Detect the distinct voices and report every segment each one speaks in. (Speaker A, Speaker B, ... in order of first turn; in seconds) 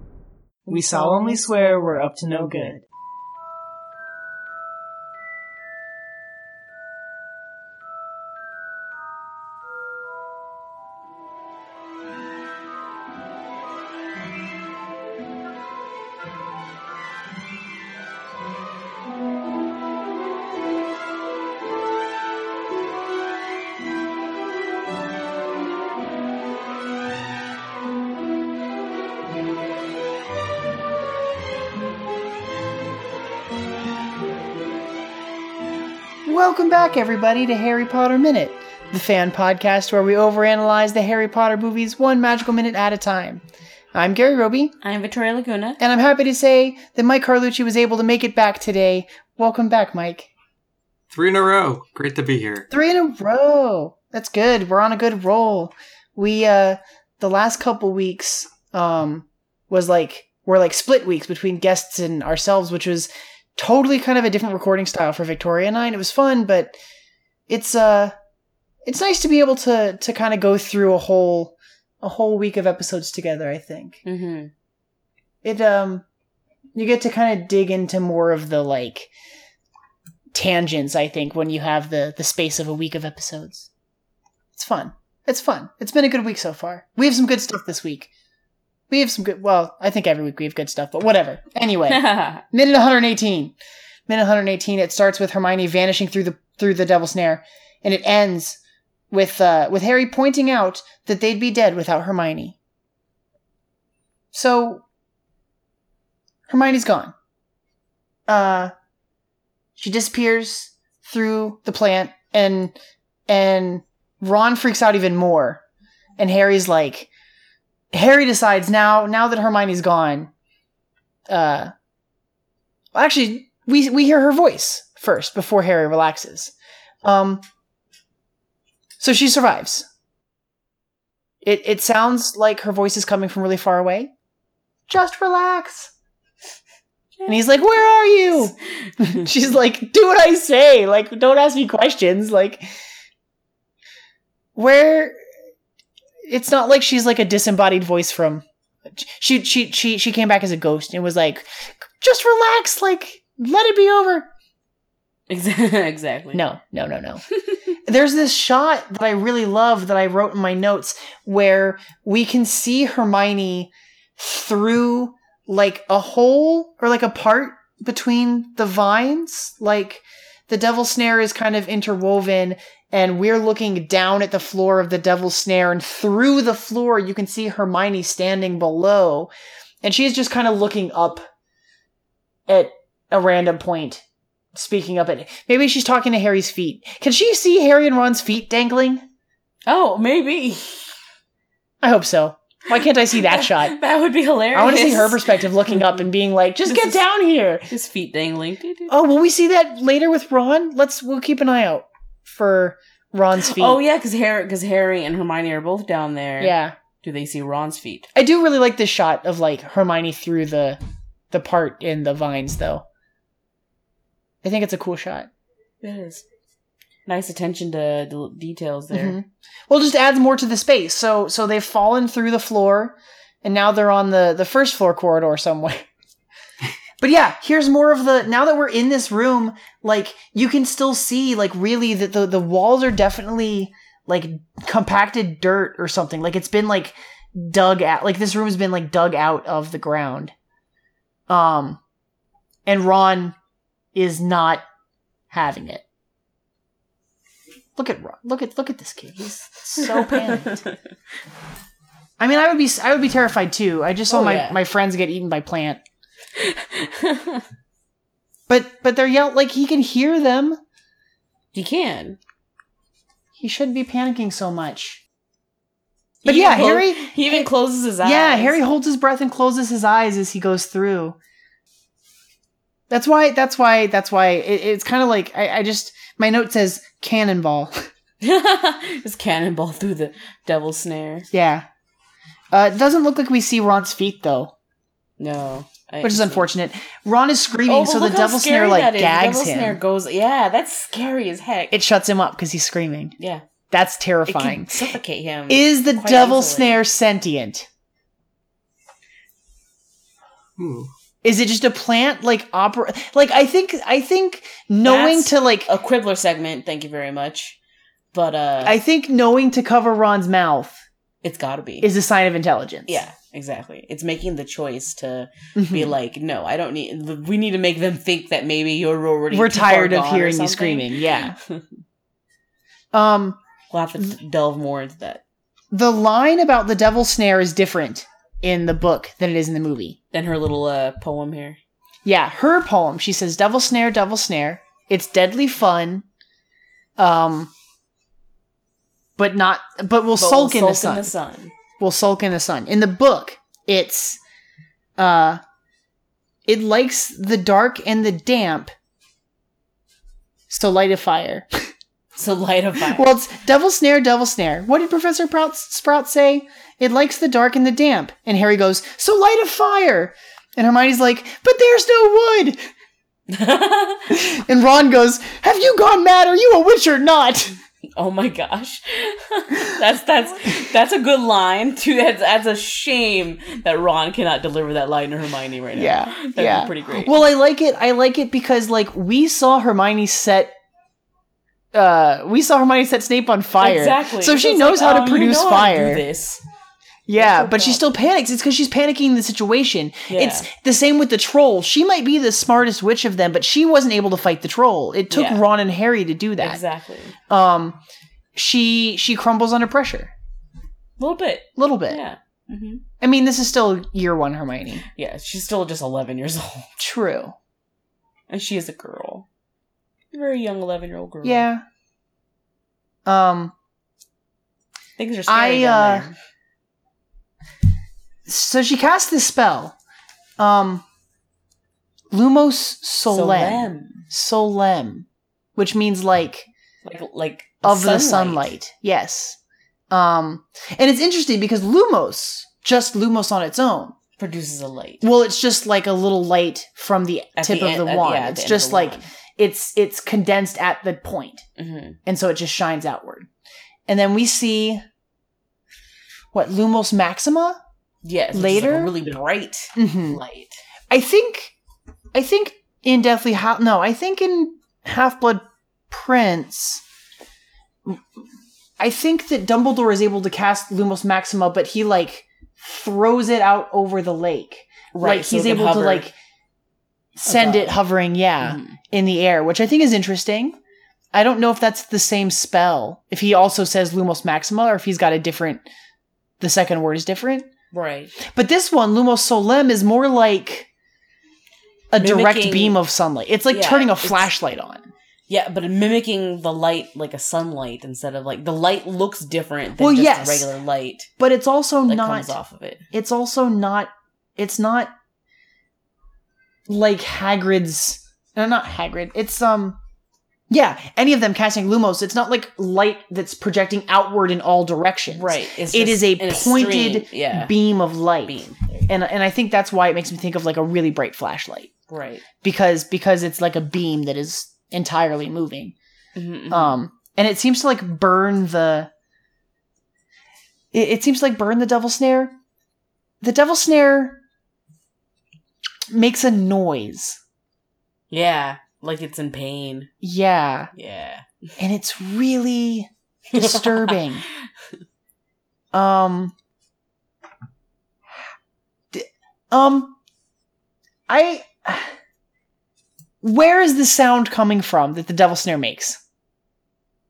Speaker A: 0.7-1.4, 2.4-2.7, 44.8-45.8, 74.0-74.5, 91.9-92.4, 137.2-137.5, 138.4-139.1, 155.3-156.4, 189.7-190.9, 193.1-196.0, 196.7-197.0, 197.7-198.9, 203.3-208.1, 215.8-216.2, 217.1-219.2, 249.8-250.7, 254.1-254.6, 256.4-257.4, 261.5-262.2, 266.2-268.6, 278.2-281.3, 285.2-286.5, 287.7-291.8, 294.3-296.8, 304.8-307.6, 308.1-308.8, 311.2-311.9, 312.9-321.6, 323.7-325.2, 330.1-331.6, 340.2-341.5, 352.2-353.1, 363.3-364.2, 368.0-377.2, 383.6-386.4, 387.1-388.0, 390.1-390.5, 395.1-395.4, 396.4-397.1, 401.0-402.8, 404.9-406.7, 408.3-409.2, 410.1-411.5, 415.0-416.1, 423.1-424.0, 426.9-428.5, 434.2-435.1, 437.4-439.1, 441.6-442.0, 448.0-450.6, 464.9-466.1, 467.3-467.8, 468.4-468.8, 477.7-478.1, 482.0-482.8, 483.5-484.3, 485.3-491.1, 491.9-492.9, 505.1-507.5, 508.2-508.8, 511.9-512.2, 516.1-516.8, 528.1-529.9, 530.7-531.2, 533.3-534.1
Speaker B: 0.7-2.8, 36.2-44.7, 45.8-50.3, 52.7-66.7, 67.5-68.2, 68.8-74.0, 75.4-76.0, 76.7-79.1, 80.3-83.7, 84.5-88.1, 88.9-93.5, 94.1-98.6, 99.1-102.6, 104.3-104.8, 106.5-107.1, 108.3-108.7, 109.8-112.7, 113.3-115.6, 116.2-117.1, 117.9-120.3, 121.3-121.7, 122.9-127.4, 129.0-129.9, 131.4-134.1, 134.9-135.9, 137.2-142.6, 144.6-145.2, 146.3-154.3, 156.3-157.2, 157.8-179.3, 179.8-181.3, 182.5-184.0, 184.5-189.1, 191.8-193.8, 194.5-197.7, 198.9-203.8, 206.4-206.8, 208.2-210.8, 211.3-212.8, 214.4-215.3, 218.9-225.9, 227.0-240.3, 241.3-241.8, 242.7-243.4, 243.9-244.6, 245.3-245.8, 247.8-250.6, 252.2-255.8, 258.5-260.6, 263.4-265.0, 266.2-267.5, 268.0-271.2, 272.9-277.9, 281.3-281.7, 282.5-284.5, 286.0-289.8, 291.7-293.1, 293.7-294.9, 295.5-297.7, 301.2-305.7, 308.6-310.8, 311.8-313.0, 315.6-315.9, 319.3-321.4, 322.9-323.4, 325.7-330.0, 332.1-336.1, 337.0-337.5, 339.2-341.1, 341.8-344.2, 345.0-345.4, 346.4-348.7, 350.5-351.7, 352.9-362.6, 364.1-367.6, 375.8-380.5, 381.7-386.0, 387.1-396.6, 397.3-397.8, 398.4-400.1, 401.6-402.0, 403.0-404.9, 406.8-407.4, 411.2-411.6, 413.1-413.5, 415.3-416.1, 418.3-419.8, 420.4-420.8, 422.1-426.5, 427.6-429.4, 429.9-433.9, 435.0-441.4, 442.1-443.3, 443.9-444.8, 446.3-447.6, 448.3-449.1, 449.8-450.2, 450.9-451.5, 452.1-456.8, 458.8-466.1, 467.2-470.6, 471.1-475.6, 476.4-477.5, 478.2-480.7, 481.9-484.9, 489.8-490.5, 491.2-492.3, 492.9-494.9, 496.7-499.8, 500.5-511.7, 512.4-515.8, 516.5-518.9, 520.7-522.4, 523.2-524.2, 525.9-527.2, 530.0-530.7, 531.6-534.2, 535.7-536.3, 538.9-540.0, 541.1-541.9, 543.2-546.0
Speaker C: 51.1-52.7, 300.6-300.9